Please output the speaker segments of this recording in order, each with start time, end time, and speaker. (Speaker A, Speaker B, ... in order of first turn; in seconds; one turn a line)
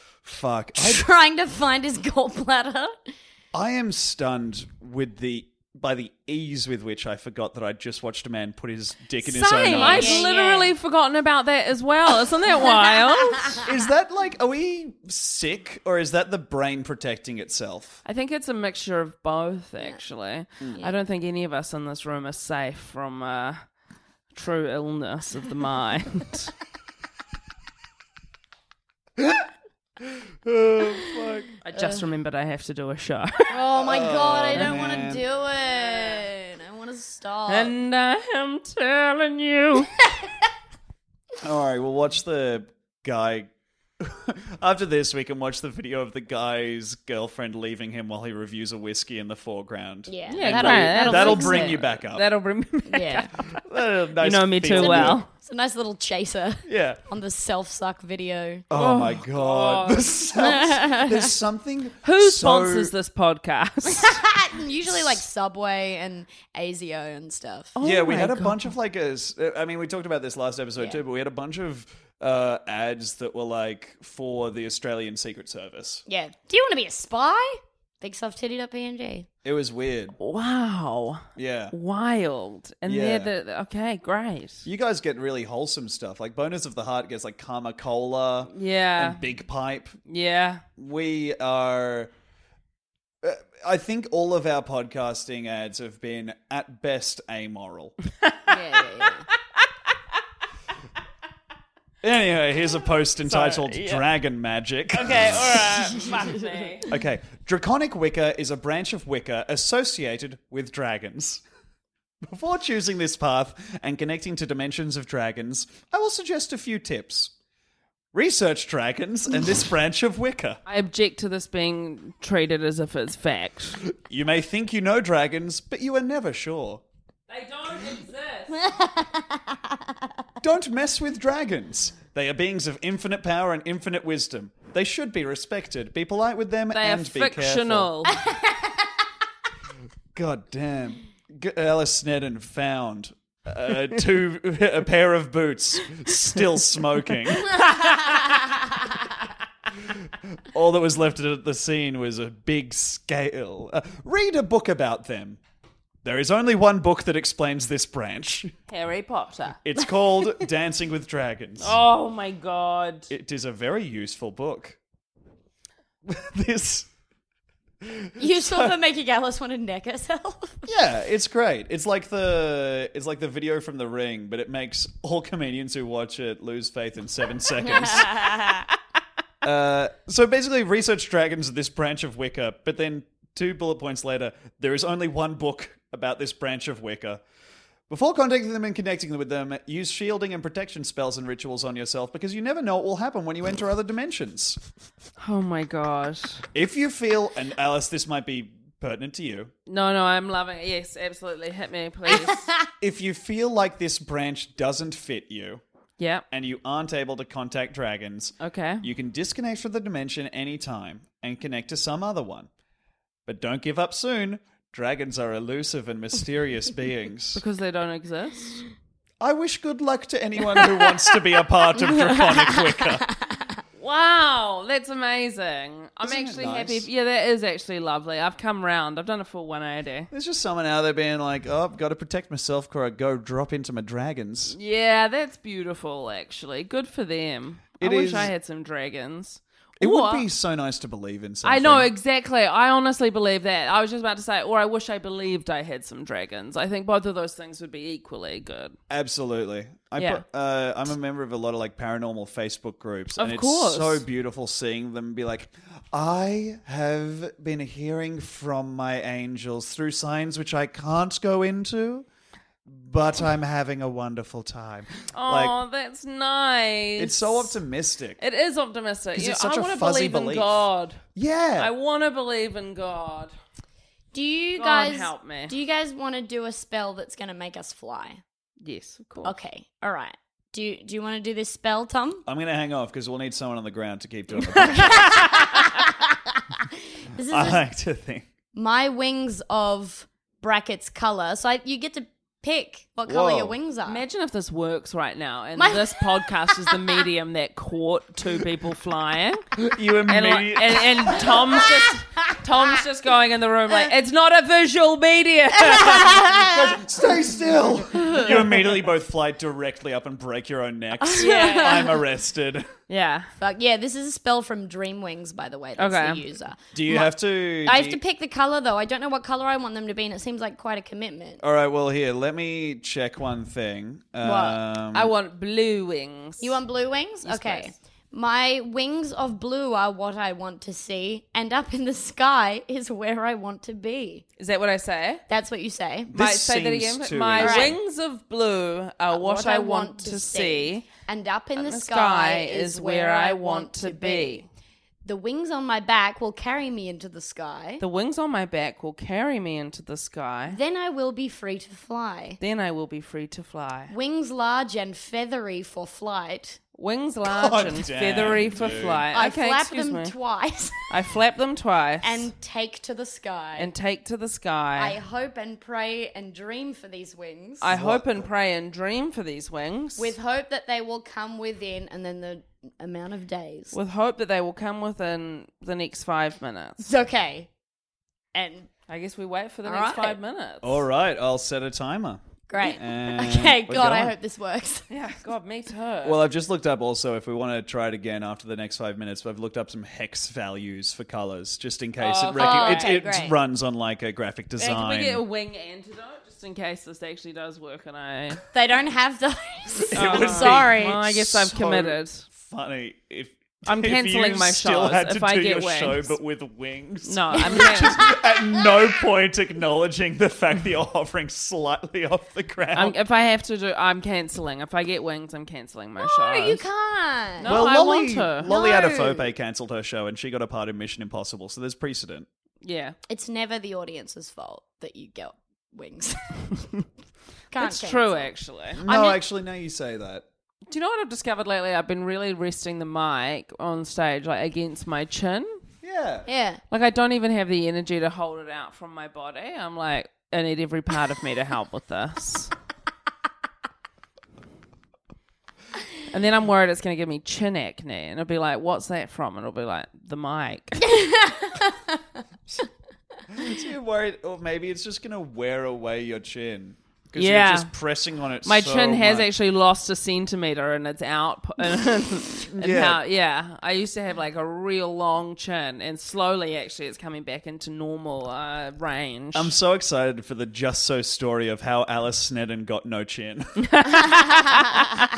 Speaker A: 0.2-1.1
Speaker B: 0.8-2.9
Speaker A: 3.5-10.3
Speaker B: 9.3-10.7
Speaker C: 9.3-13.6
Speaker A: 13.6-18.0
Speaker C: 18.1-23.6
Speaker B: 19.8-20.0
Speaker C: 24.3-26.5
Speaker A: 29.2-29.4
Speaker A: 30.4-31.5
Speaker C: 31.6-33.5
Speaker B: 33.5-37.7
Speaker A: 33.7-35.3
Speaker C: 35.7-36.2
Speaker C: 37.5-39.9
Speaker A: 41.4-43.5
Speaker A: 44.0-52.3
Speaker B: 50.1-51.8
Speaker C: 50.3-53.6
Speaker B: 52.9-53.3
Speaker A: 53.6-55.2
Speaker C: 54.2-55.3
Speaker B: 54.7-58.6
Speaker A: 56.7-57.0
Speaker A: 58.7-62.9
Speaker C: 58.7-60.1
Speaker B: 60.4-61.3
Speaker C: 62.0-64.2
Speaker B: 63.9-67.8
Speaker C: 67.8-68.7
Speaker A: 67.8-76.0
Speaker B: 76.1-79.3
Speaker A: 79.4-80.2
Speaker C: 80.2-84.7
Speaker A: 81.4-81.7
Speaker A: 82.8-83.3
Speaker A: 84.7-90.0
Speaker C: 88.5-89.2
Speaker C: 90.1-90.6
Speaker A: 90.8-92.1
Speaker A: 93.2-97.9
Speaker B: 98.5-99.3
Speaker A: 102.0-105.7
Speaker C: 103.2-104.1
Speaker C: 104.9-106.9
Speaker A: 106.9-111.4
Speaker A: 112.2-117.3
Speaker A: 118.1-120.6
Speaker C: 120.7-123.8
Speaker A: 123.9-126.8
Speaker C: 127.3-128.7
Speaker A: 130.4-137.9
Speaker C: 136.7-138.1
Speaker B: 138.3-138.5
Speaker A: 140.2-147.6
Speaker C: 147.5-148.1
Speaker A: 150.5-155.4
Speaker A: 156.0-158.5
Speaker C: 158.7-159.6
Speaker A: 159.6-161.8
Speaker C: 161.6-163.1
Speaker A: 163.1-164.8
Speaker A: 166.1-166.9
Speaker A: 167.8-168.8
Speaker B: 168.2-170.7
Speaker A: 170.7-178.4
Speaker B: 177.7-178.7
Speaker A: 179.4-187.2
Speaker A: 187.9-194.6
Speaker C: 195.2-196.4
Speaker A: 196.5-199.5
Speaker C: 199.7-202.5
Speaker B: 202.1-202.6
Speaker A: 202.8-205.6
Speaker C: 206.0-206.2
Speaker A: 206.3-212.5
Speaker C: 208.4-208.9
Speaker A: 213.3-217.4
Speaker C: 217.4-218.6
Speaker A: 219.2-223.1
Speaker C: 223.8-230.1
Speaker A: 226.0-226.9
Speaker A: 230.1-234.6
Speaker C: 234.5-240.3
Speaker A: 237.8-238.3
Speaker A: 239.8-241.9
Speaker C: 241.4-248.8
Speaker A: 248.9-262.1
Speaker C: 250.0-250.2
Speaker C: 253.2-254.0
Speaker A: 262.7-265.6
Speaker C: 265.1-267.6
Speaker A: 267.0-268.2
Speaker C: 268.2-271.0
Speaker A: 269.1-271.7
Speaker C: 271.6-273.3
Speaker B: 274.1-278.2
Speaker C: 274.6-275.5
Speaker C: 278.6-279.3
Speaker B: 279.2-282.2
Speaker A: 282.3-285.4
Speaker C: 284.6-285.6
Speaker B: 284.7-285.4
Speaker B: 287.1-287.6
Speaker A: 287.3-288.2
Speaker B: 288.5-294.0
Speaker A: 293.1-293.6
Speaker C: 293.9-299.5
Speaker B: 295.6-296.6
Speaker A: 299.6-301.6
Speaker C: 300.1-306.3
Speaker B: 305.7-306.5
Speaker A: 306.4-312.7
Speaker B: 308.0-308.2
Speaker B: 311.0-312.0
Speaker C: 311.2-311.9
Speaker C: 312.9-313.3
Speaker B: 313.4-321.4
Speaker C: 315.8-316.2
Speaker A: 316.7-318.0
Speaker A: 321.4-325.1
Speaker B: 324.2-324.6
Speaker C: 324.9-326.6
Speaker B: 326.4-334.2
Speaker C: 327.2-327.7
Speaker C: 334.4-335.2
Speaker B: 335.3-336.1
Speaker A: 336.1-337.8
Speaker C: 336.1-340.9
Speaker B: 337.4-337.8
Speaker B: 339.1-344.4
Speaker C: 341.6-344.5
Speaker B: 345.1-347.8
Speaker C: 347.8-350.6
Speaker B: 350.5-352.4
Speaker C: 352.4-353.9
Speaker B: 353.9-356.6
Speaker C: 356.8-360.1
Speaker A: 357.2-359.1
Speaker B: 359.1-360.9
Speaker C: 360.9-362.3
Speaker B: 362.0-363.7
Speaker C: 363.6-365.0
Speaker B: 364.8-367.7
Speaker C: 367.6-370.1
Speaker A: 367.6-368.3
Speaker B: 370.0-373.8
Speaker C: 373.7-376.9
Speaker B: 376.8-377.5
Speaker B: 378.3-378.7
Speaker C: 378.9-380.8
Speaker B: 379.7-380.2
Speaker A: 380.6-382.2
Speaker B: 382.5-384.9
Speaker A: 382.8-384.1
Speaker C: 384.9-386.2
Speaker A: 386.0-395.2
Speaker C: 392.0-392.9
Speaker B: 392.4-393.4
Speaker C: 394.6-398.4
Speaker B: 398.5-401.1
Speaker A: 399.9-413.0
Speaker C: 399.9-402.3
Speaker C: 403.7-406.1
Speaker C: 407.1-408.0
Speaker B: 407.4-408.6
Speaker C: 412.7-416.6
Speaker B: 416.0-417.6
Speaker C: 417.4-418.5
Speaker A: 417.4-422.3
Speaker B: 418.4-419.3
Speaker C: 422.6-423.0
Speaker B: 423.1-426.4
Speaker B: 427.5-428.3
Speaker C: 427.6-428.8
Speaker A: 428.8-430.2
Speaker B: 428.9-429.2
Speaker C: 430.7-435.6
Speaker A: 435.8-436.3
Speaker B: 436.3-436.6
Speaker C: 436.7-442.5
Speaker C: 446.1-450.9
Speaker B: 450.9-451.8
Speaker A: 453.3-459.3
Speaker C: 457.2-457.7
Speaker C: 458.4-469.5
Speaker A: 462.5-463.0
Speaker A: 469.3-474.0
Speaker C: 473.7-474.8